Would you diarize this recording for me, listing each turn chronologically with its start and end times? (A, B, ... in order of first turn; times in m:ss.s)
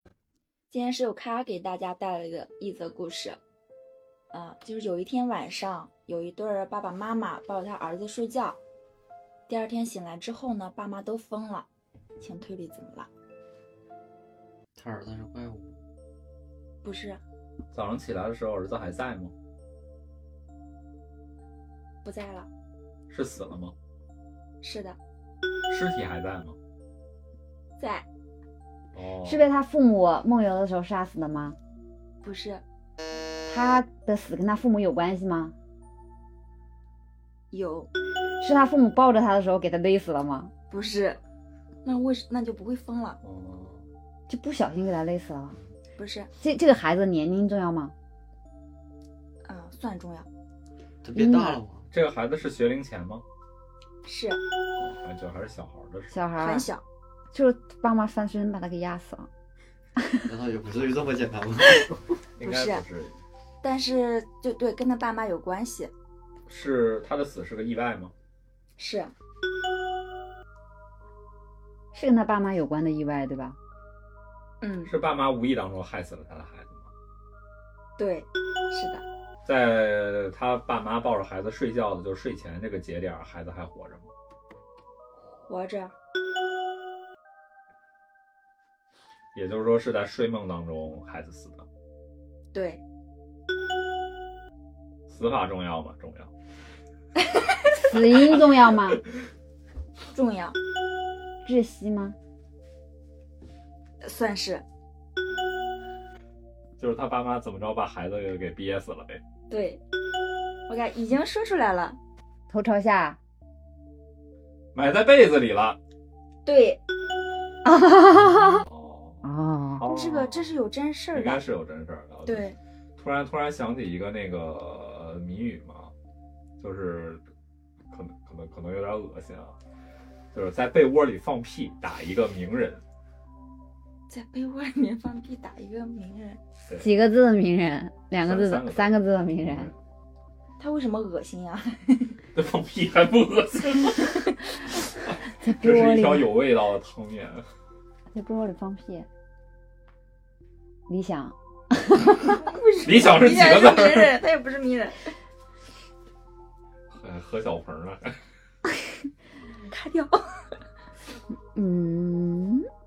0:00.7-0:03.4 A
0:04.3-0:08.6 A
0:09.5-0:11.7 A
0:12.2-0:13.1 A
0:14.8-0:15.8 B
0:16.8-0:17.2 A
0:17.7-0:19.3 C
0:22.0-0:22.5 A
0:23.1-0:23.7 C
0:24.6-0:25.0 A
0:25.7-0:26.6 C
0:27.8-0:28.1 A
0:28.9-0:29.4 C
0:29.2-0:31.6 D
0:32.2-0:32.6 A
0:33.5-0:35.5 D
0:37.5-0:37.9 A
0:38.4-0:40.5 D
0:40.7-0:41.2 A
0:41.8-0:43.2 A
0:43.2-0:43.9 C
0:44.3-0:45.6 D
0:46.0-0:46.3 A
0:46.4-0:47.9 D
0:49.4-0:50.3 A
0:51.0-0:51.9 B
0:51.1-0:51.6 D
0:51.9-0:53.2 C
0:54.0-0:54.4 A
0:54.8-0:56.2 C
0:56.1-0:56.7 D
0:56.4-0:56.8 A
0:57.3-0:59.3 D
1:00.2-1:02.2 B
1:02.4-1:03.2 C
1:02.4-1:02.8 A
1:03.6-1:05.9 A
1:06.5-1:08.1 C
1:08.8-1:09.1 A
1:11.9-1:13.6 D
1:14.6-1:14.9 A
1:14.8-1:16.9 C
1:18.0-1:19.0 A
1:19.4-1:24.1 C
1:25.3-1:25.9 A
1:29.3-1:31.6 C
1:32.5-1:32.8 A
1:35.1-1:36.3 C
1:37.7-1:39.0 D
1:40.1-1:40.6 A
1:41.4-1:42.2 D
1:44.0-1:44.6 A
1:46.8-1:49.2 C
1:49.5-1:49.8 A
1:50.7-1:52.0 A
1:52.5-1:53.2 D
1:54.7-1:55.8 C
1:56.4-1:56.8 A
1:57.6-1:58.6 D
1:58.1-2:00.5 C
1:59.2-1:59.9 D
1:59.9-2:01.4 A
2:01.1-2:05.9 C
2:02.2-2:02.6 A
2:06.6-2:07.2 C
2:07.9-2:09.6 C
2:10.3-2:12.8 C
2:14.1-2:16.4 A
2:16.8-2:19.7 D
2:18.2-2:19.7 C
2:20.6-2:22.2 A
2:22.3-2:24.3 C
2:25.2-2:26.3 D
2:25.6-2:27.4 C
2:28.1-2:29.1 D
2:30.9-2:32.4 D
2:32.2-2:35.1 A
2:32.8-2:34.2 C
2:36.9-2:38.2 C
2:39.7-2:40.2 A
2:41.5-2:42.6 D